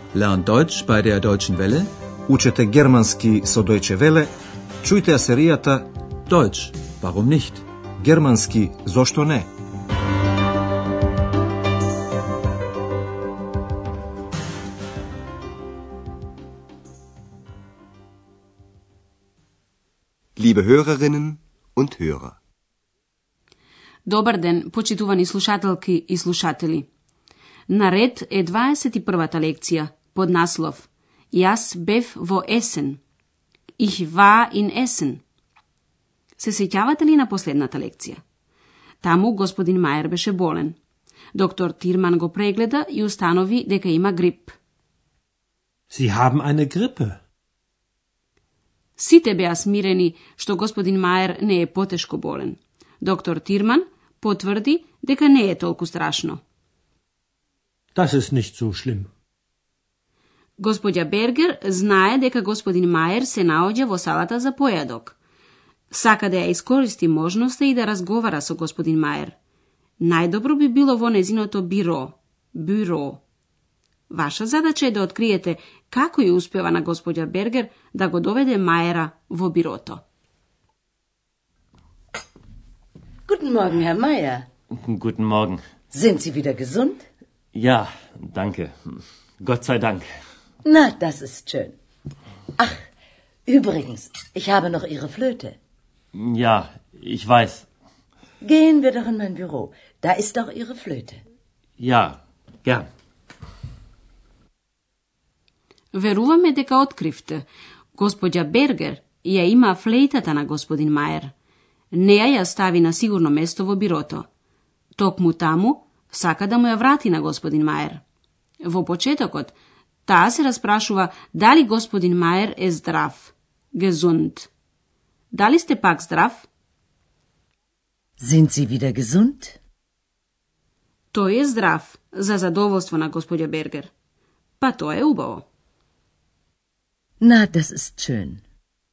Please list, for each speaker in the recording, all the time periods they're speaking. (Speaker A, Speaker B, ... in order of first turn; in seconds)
Speaker A: 0.1-1.9, 6.3-7.6
Speaker B: 2.3-4.3, 4.8-5.8, 8.0-9.5
Speaker C: 20.4-22.4
Speaker D: 24.1-26.9, 27.7-33.0, 33.8-35.2, 36.4-38.2, 39.0-40.8, 41.4-44.6, 49.0-56.4, 60.6-65.2, 65.9-69.3, 70.0-73.2, 74.1-80.0, 105.9-111.3, 111.9-114.3, 115.0-118.0, 118.6-119.5, 120.1-124.5, 125.3-126.5, 131.1-133.9, 134.6-135.4
Speaker E: 45.9-47.2, 58.0-59.1
Speaker F: 83.3-84.5, 85.9-87.0, 90.7-91.7, 93.5-95.6, 98.4-101.2, 128.2-129.6, 137.2-138.4
Speaker G: 84.8-85.6, 87.5-90.1, 96.1-97.7, 101.8-102.8